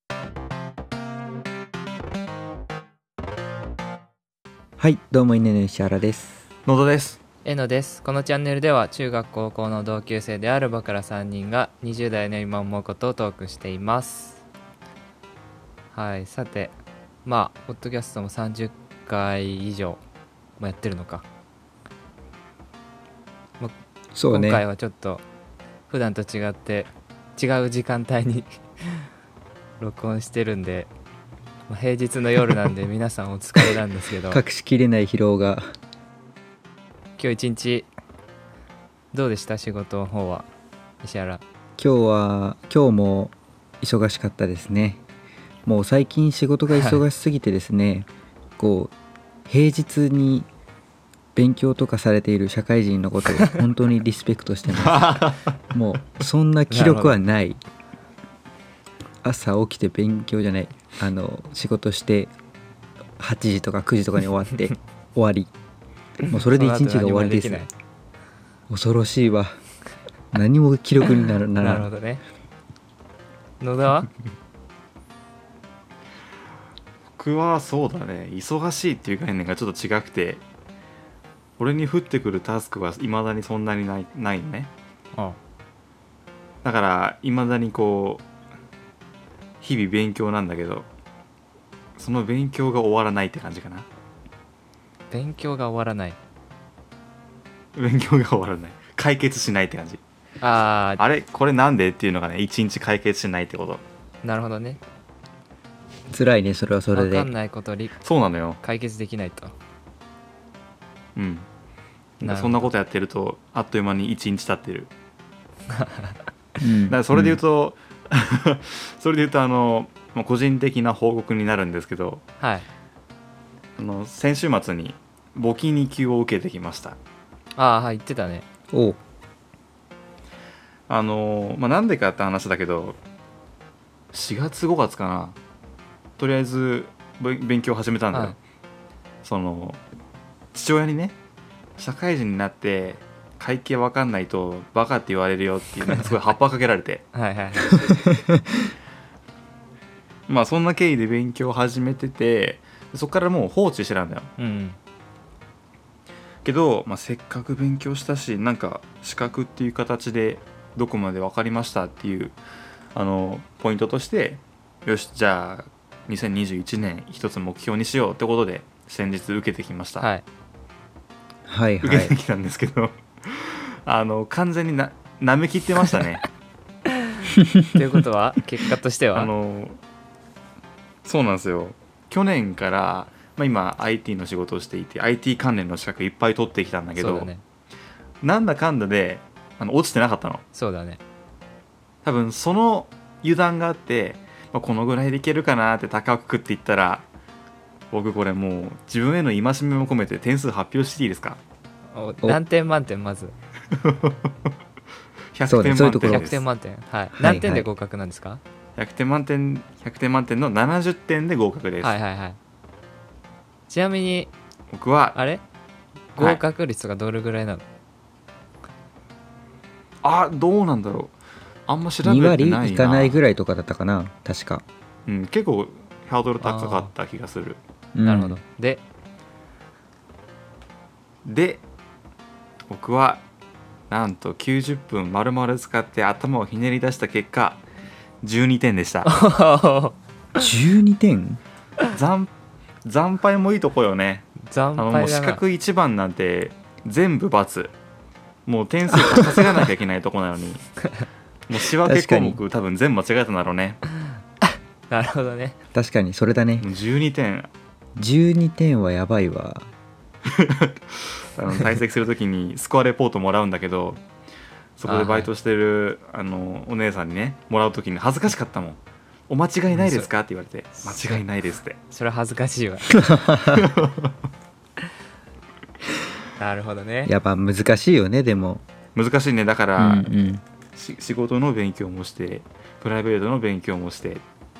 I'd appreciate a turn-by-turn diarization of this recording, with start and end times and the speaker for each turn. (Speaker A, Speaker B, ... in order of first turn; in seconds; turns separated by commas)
Speaker A: 4.8-6.4, Speaker B: 6.7-7.2, Speaker C: 7.4-14.4, Speaker C: 15.9-16.7, Speaker C: 17.2-20.0, Speaker C: 20.6-21.2, Speaker A: 24.1-24.6, Speaker C: 24.3-25.2, Speaker C: 25.9-29.1, Speaker C: 29.8-30.9, Speaker C: 31.7-34.4, Speaker A: 34.3-35.6, Speaker C: 37.2-37.9, Speaker C: 39.1-40.5, Speaker C: 41.0-41.4, Speaker A: 41.8-45.0, Speaker A: 45.6-48.9, Speaker C: 46.7-47.0, Speaker A: 49.5-50.5, Speaker A: 51.3-57.6, Speaker B: 54.7-55.5, Speaker C: 56.7-57.2, Speaker A: 59.2-62.3, Speaker A: 63.2-65.5, Speaker C: 66.2-67.7, Speaker A: 66.3-67.7, Speaker A: 68.7-69.5, Speaker A: 70.3-71.9, Speaker C: 71.6-72.2, Speaker C: 73.6-74.1, Speaker B: 77.2-80.4, Speaker B: 81.6-84.7, Speaker B: 86.6-88.2, Speaker B: 89.6-90.9, Speaker B: 92.0-93.9, Speaker C: 95.1-96.2, Speaker B: 97.8-100.0, Speaker C: 100.4-101.0, Speaker B: 101.0-103.8, Speaker C: 104.2-104.8, Speaker A: 106.1-107.3, Speaker C: 106.9-108.0, Speaker B: 108.0-108.6, Speaker C: 108.6-109.5, Speaker B: 111.2-111.5, Speaker B: 112.2-114.9, Speaker C: 112.2-112.6, Speaker C: 115.7-116.2, Speaker A: 116.6-117.4, Speaker B: 116.9-122.2, Speaker C: 122.4-122.7, Speaker B: 123.8-127.0, Speaker C: 127.5-128.4, Speaker A: 128.7-129.0, Speaker B: 130.9-133.0, Speaker B: 134.1-135.3, Speaker B: 136.2-138.4, Speaker C: 138.1-138.4, Speaker B: 139.2-139.8, Speaker B: 140.5-141.2, Speaker B: 141.8-147.0, Speaker C: 147.1-148.0, Speaker A: 147.9-148.4, Speaker B: 150.3-154.3, Speaker C: 154.4-154.8, Speaker B: 156.4-162.3, Speaker B: 162.9-170.1, Speaker C: 170.0-170.2, Speaker A: 171.5-172.1, Speaker B: 171.8-176.2, Speaker C: 177.7-179.3, Speaker B: 179.1-179.8, Speaker B: 181.0-187.3, Speaker C: 186.9-187.4, Speaker B: 188.2-190.4, Speaker C: 190.5-191.0, Speaker B: 192.0-197.0, Speaker B: 197.9-201.4, Speaker C: 201.9-203.3, Speaker B: 203.8-204.1, Speaker B: 205.3-206.4, Speaker A: 205.4-206.3, Speaker C: 206.1-208.4, Speaker A: 207.2-207.7, Speaker B: 208.8-212.0, Speaker C: 211.8-212.4, Speaker C: 213.7-214.3, Speaker B: 214.7-215.2, Speaker C: 215.1-215.4, Speaker C: 216.2-217.6, Speaker B: 220.0-221.1, Speaker B: 221.7-223.2, Speaker A: 222.0-224.6, Speaker B: 225.1-227.6, Speaker C: 226.4-226.9, Speaker A: 227.9-228.4, Speaker C: 228.0-228.8, Speaker B: 231.2-231.6, Speaker B: 232.7-233.2, Speaker B: 233.9-237.6, Speaker B: 238.2-239.1, Speaker C: 239.0-240.4, Speaker A: 240.3-241.4, Speaker B: 241.9-242.3, Speaker B: 242.8-247.7, Speaker C: 244.4-245.4, Speaker B: 248.4-250.7, Speaker B: 251.5-253.8, Speaker A: 251.8-252.4, Speaker C: 254.4-255.6, Speaker A: 255.7-256.7, Speaker B: 256.6-257.5, Speaker A: 258.0-259.7, Speaker B: 260.3-264.0, Speaker B: 264.8-271.8, Speaker C: 264.9-265.3, Speaker C: 269.7-270.1, Speaker C: 270.7-271.2, Speaker C: 271.9-273.0, Speaker A: 272.9-273.6, Speaker B: 273.5-274.1, Speaker C: 276.4-277.1, Speaker A: 277.1-278.6, Speaker B: 278.9-280.1, Speaker A: 279.8-280.4, Speaker B: 280.8-284.2